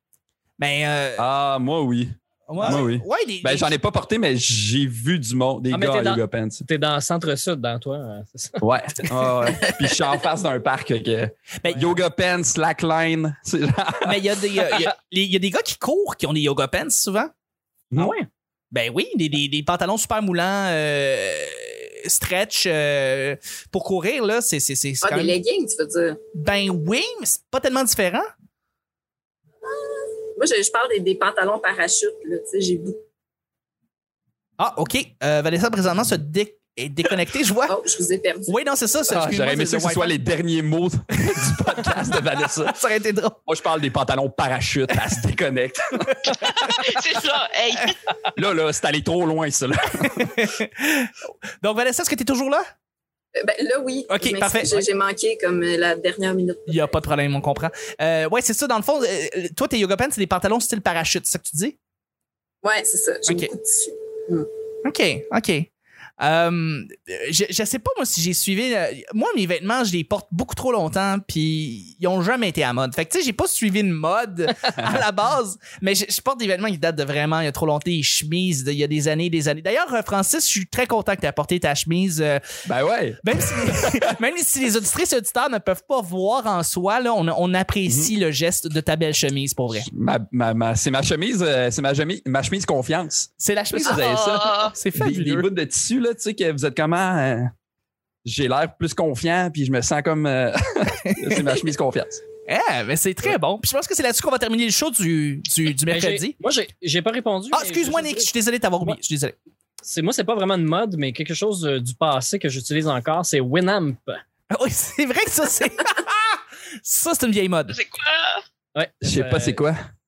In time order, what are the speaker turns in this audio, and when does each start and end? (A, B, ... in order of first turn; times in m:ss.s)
0:00.6-0:01.3 A
0:01.2-0:06.6 B
0:02.5-0:03.7 A
0:05.7-0:09.1 C
0:08.6-0:14.8 B
0:09.3-0:09.7 A
0:11.6-0:12.0 A
0:14.0-0:17.3 A
0:18.0-0:18.3 C
0:18.7-0:25.4 A
0:25.0-0:26.2 D
0:26.3-0:28.3 A
0:29.7-0:33.1 D
0:34.6-0:37.8 A
0:37.7-0:38.5 D
0:38.5-0:40.2 A
0:39.1-0:42.8 B
0:42.6-0:43.4 A
0:43.5-0:46.5 B
0:46.3-0:46.8 A
0:46.3-0:48.0 E
0:48.4-0:50.4 B
0:50.0-0:52.7 A
0:53.4-0:57.0 D
0:54.1-0:54.9 A
0:56.7-1:01.8 A
1:02.6-1:04.5 D
1:04.8-1:05.7 A
1:06.2-1:22.4 A
1:14.8-1:15.0 B
1:22.6-1:24.1 B
1:23.2-1:29.9 A
1:27.9-1:28.1 B
1:29.8-1:33.3 B
1:33.4-1:34.1 A
1:33.8-1:37.5 B
1:33.9-1:34.8 E
1:34.7-1:35.5 A
1:38.2-1:42.2 B
1:41.1-1:41.5 A
1:42.5-1:46.4 A
1:45.9-1:48.3 C
1:47.5-1:49.4 A
1:49.8-1:54.2 C
1:54.5-1:57.8 A
1:57.7-1:58.4 E
1:58.8-1:59.6 C
1:59.0-1:59.9 B